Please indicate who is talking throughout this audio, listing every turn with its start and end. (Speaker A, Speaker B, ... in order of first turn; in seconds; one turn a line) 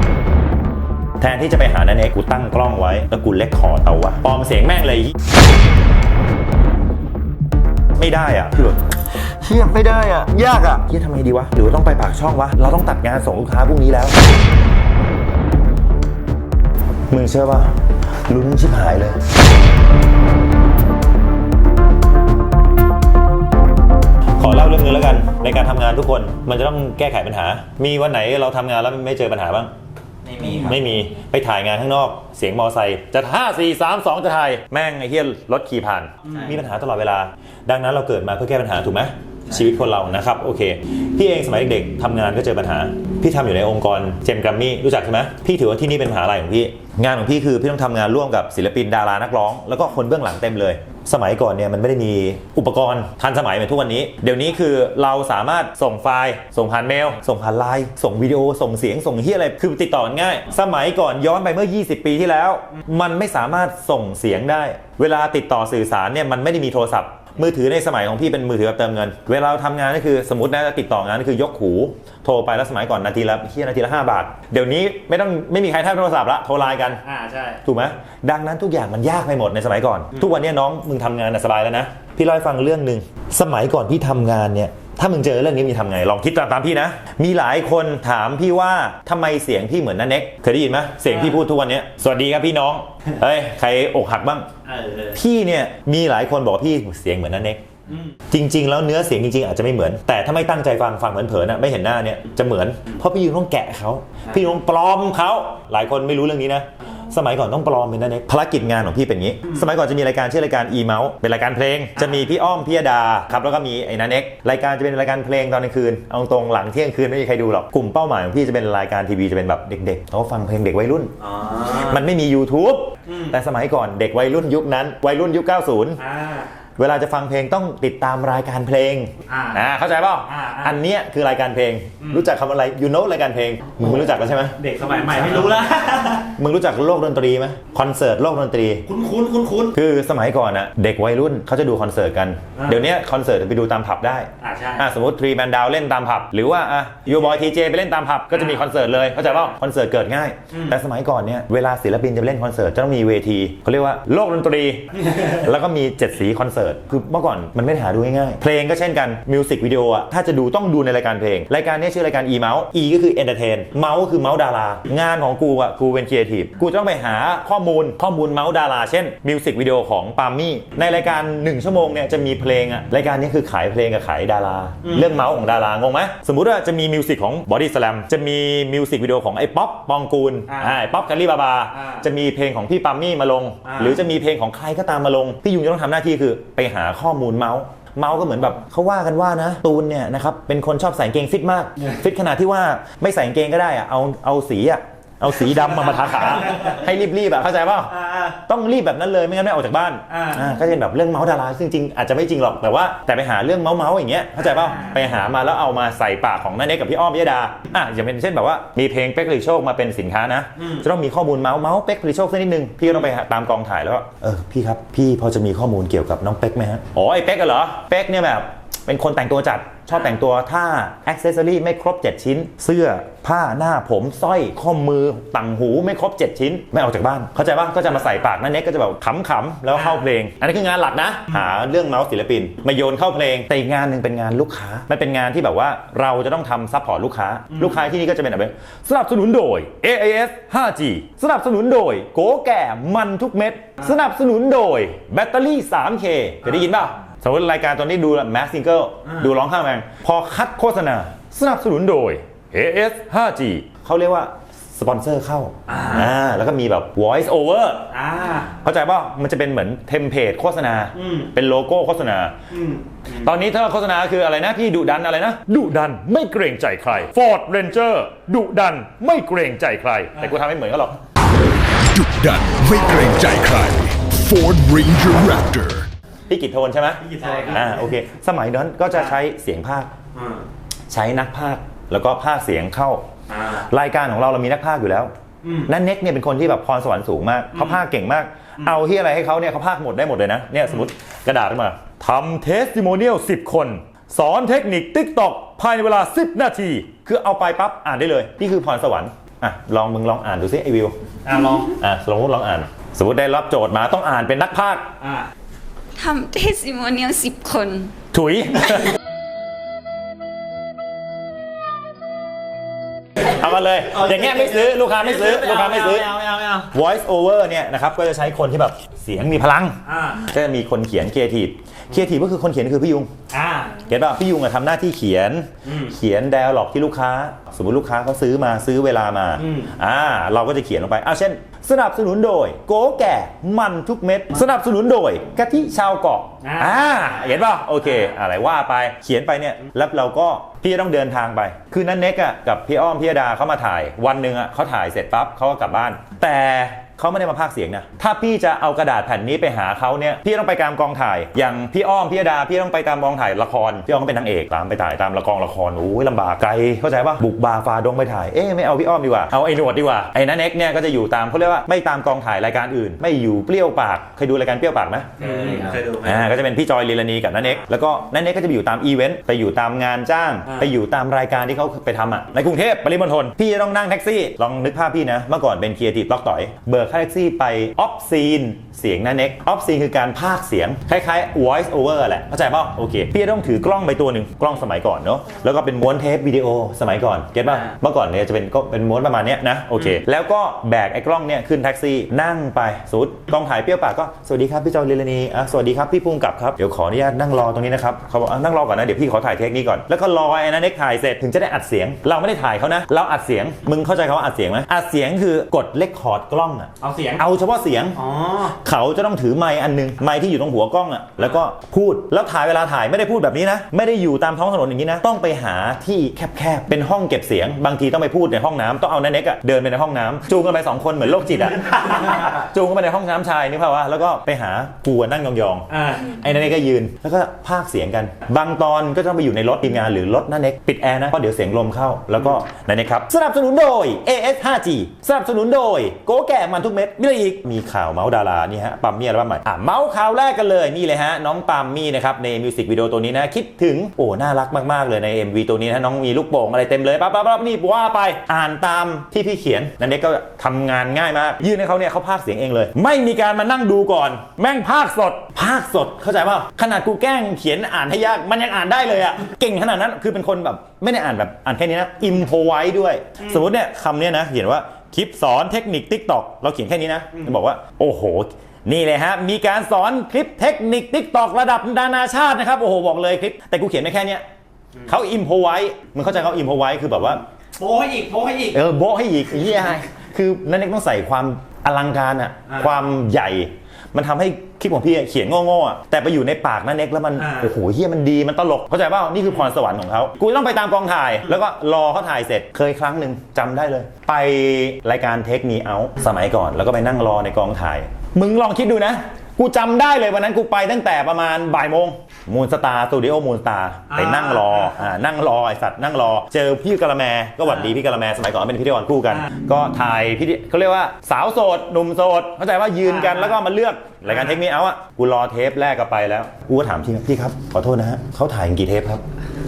Speaker A: 1.2-5.1
Speaker A: 8.0-14.2
Speaker A: 17.1-19.2
Speaker A: 24.4-29.7
Speaker B: 30.2-30.8
Speaker A: 30.4-77.0
Speaker B: 36.2-36.6
Speaker B: 76.8-77.6
Speaker A: 77.6-94.5
Speaker B: 80.1-80.4
Speaker B: 91.1-91.4
Speaker B: 94.7-95.2
Speaker A: 95.1-97.6
Speaker B: 97.9-98.2
Speaker A: 98.3-121.1
Speaker B: 112.0-112.2
Speaker B: 121.2-122.0
Speaker A: 121.6-126.0
Speaker B: 123.1-123.3
Speaker B: 126.0-126.5
Speaker A: 126.8-134.6
Speaker B: 129.3-129.7
Speaker B: 130.2-130.8
Speaker B: 132.0-132.3
Speaker B: 134.6-136.3
Speaker A: 135.1-135.6
Speaker A: 136.2-138.9
Speaker B: 138.9-139.8
Speaker A: 139.7-257.9
Speaker B: 142.6-142.9
Speaker B: 144.4-144.9
Speaker B: 148.3-148.7
Speaker B: 150.5-150.8
Speaker B: 174.8-175.1
Speaker B: 180.5-180.8
Speaker B: 181.7-182.1
Speaker B: 183.7-184.0
Speaker B: 195.5-196.8
Speaker B: 197.9-198.3
Speaker B: 200.1-200.4
Speaker B: 204.4-205.0
Speaker B: 210.6-210.8
Speaker B: 229.7-230.1
Speaker B: 237.5-237.9
Speaker B: 255.7-256.1
Speaker B: 257.9-258.5
Speaker A: 258.5-262.3
Speaker B: 260.9-261.3
Speaker B: 262.5-263.3
Speaker A: 263.1-271.0
Speaker C: 271.9-275.9
Speaker A: 276.3-279.9
Speaker B: 277.0-277.8
Speaker B: 280.1-280.4
Speaker A: 280.9-285.1
Speaker B: 283.3-283.6
Speaker B: 285.4-285.7
Speaker A: 285.6-300.9
Speaker B: 287.5-287.8
Speaker B: 301.2-301.8
Speaker A: 301.7-304.9
Speaker B: 305.0-305.3
Speaker D: 305.9-307.9
Speaker A: 308.1-309.0
Speaker A: 313.2-316.1
Speaker B: 313.9-316.7
Speaker A: 316.7-323.1
Speaker B: 319.9-320.2
Speaker B: 323.3-323.8
Speaker A: 323.8-474.2
Speaker B: 325.6-325.9
Speaker B: 329.4-329.7
Speaker B: 336.4-338.1
Speaker B: 365.2-366.3
Speaker B: 406.8-407.2
Speaker B: 407.9-408.6
Speaker B: 425.7-426.1
Speaker A: 474.8-477.2
Speaker B: 477.6-478.6
Speaker A: 478.5-519.0
Speaker B: 487.1-487.5
Speaker B: 503.9-504.8
Speaker B: 512.8-513.4
Speaker B: 514.1-514.4